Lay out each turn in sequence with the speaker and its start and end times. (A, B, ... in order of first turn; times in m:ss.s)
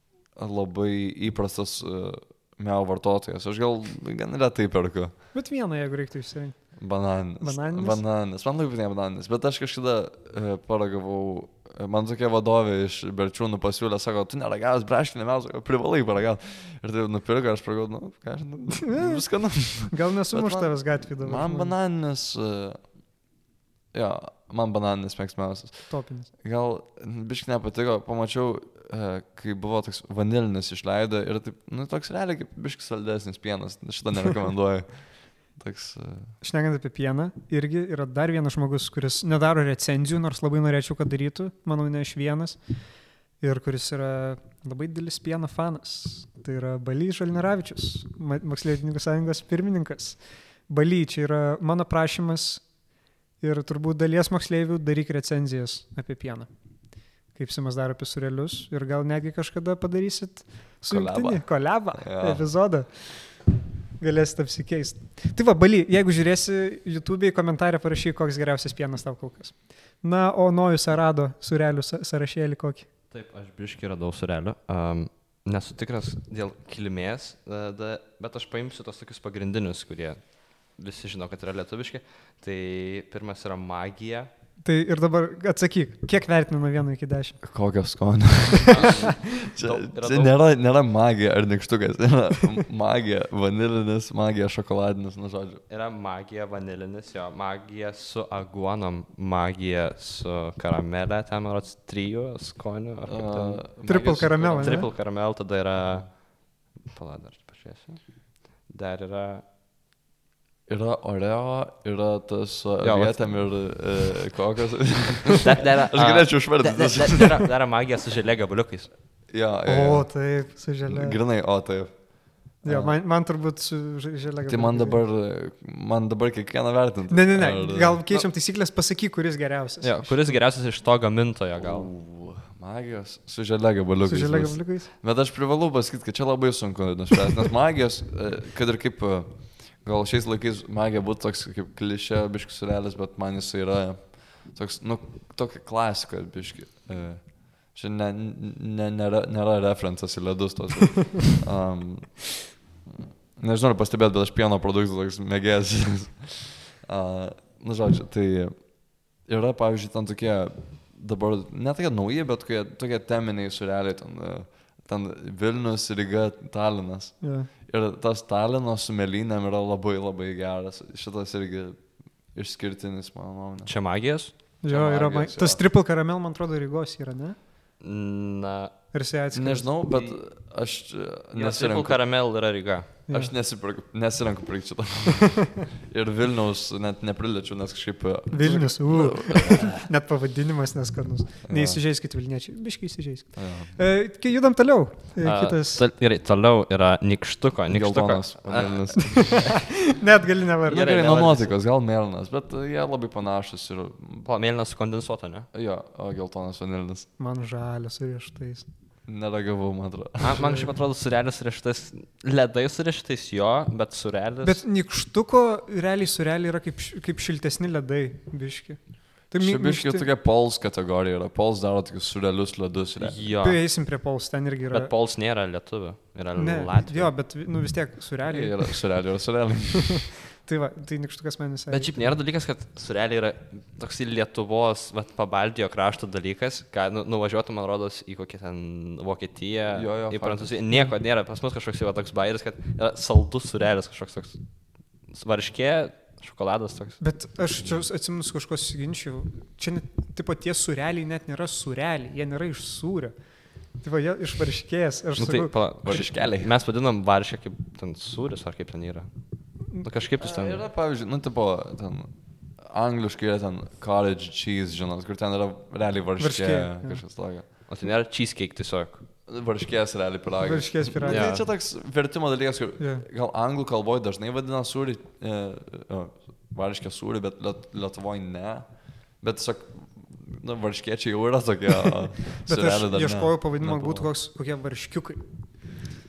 0:00.4-0:05.2 A
0:05.3-0:08.0 B
0:06.8-0:23.1 A
0:18.8-0:21.7 B
0:23.9-0:36.4 A
0:25.9-0:26.3 B
0:36.4-0:52.7 B
0:53.4-0:56.5 B
0:57.2-1:12.9 B
1:00.9-1:02.5 A
1:13.1-1:24.3 C
1:24.6-1:27.4 B
1:27.4-1:35.6 A
1:28.8-1:30.4 C
1:35.7-1:49.4 C
1:43.1-1:44.9 A
1:43.9-1:44.9 B
1:45.8-1:46.1 A
1:50.7-1:57.4 A
1:52.8-1:53.9 C
1:55.4-1:59.0 C
1:59.3-2:03.0 A
1:59.7-2:01.2 B
2:02.6-2:05.0 B
2:04.5-2:08.3 A
2:07.1-2:10.4 B
2:09.8-2:11.9 C
2:11.6-2:53.8 A
2:14.0-2:14.9 B
2:47.2-2:47.5 B
2:53.7-2:54.4 C
2:54.6-2:57.4 B
2:54.6-2:55.6 A
2:57.8-2:58.9 C
2:58.9-2:59.8 B
2:59.3-3:02.0 A
2:59.9-3:00.2 C
3:01.3-3:03.0 C
3:03.1-3:09.8 A
3:08.3-3:15.8 B
3:11.5-3:11.8 A
3:13.4-3:13.8 A
3:15.2-3:19.9 C
3:17.7-3:19.7 A
3:19.1-3:20.8 B
3:20.6-3:21.6 C
3:20.7-3:24.3 A
3:24.2-3:25.5 C
3:25.5-3:27.1 A
3:27.2-3:28.7 B
3:29.0-3:30.6 A
3:30.2-3:34.6 C
3:30.4-3:30.7 B
3:34.4-3:40.1 B
3:39.4-3:43.2 A
3:43.0-3:43.8 C
3:43.4-3:44.9 B
3:44.7-3:47.2 C
3:46.4-3:49.1 B
3:48.2-3:50.0 A
3:50.4-3:51.9 B
3:51.7-4:04.5 C
3:59.7-4:00.6 A
4:05.0-4:07.0 C
4:07.0-4:15.5 B
4:15.2-4:20.6 C
4:15.8-4:16.6 A
4:20.2-4:27.5 A
4:26.2-4:27.0 B
4:27.7-4:29.1 C
4:29.3-4:44.1 A
4:30.4-4:31.3 B
4:31.1-4:31.5 C
4:32.8-4:33.0 B
4:42.5-4:45.2 B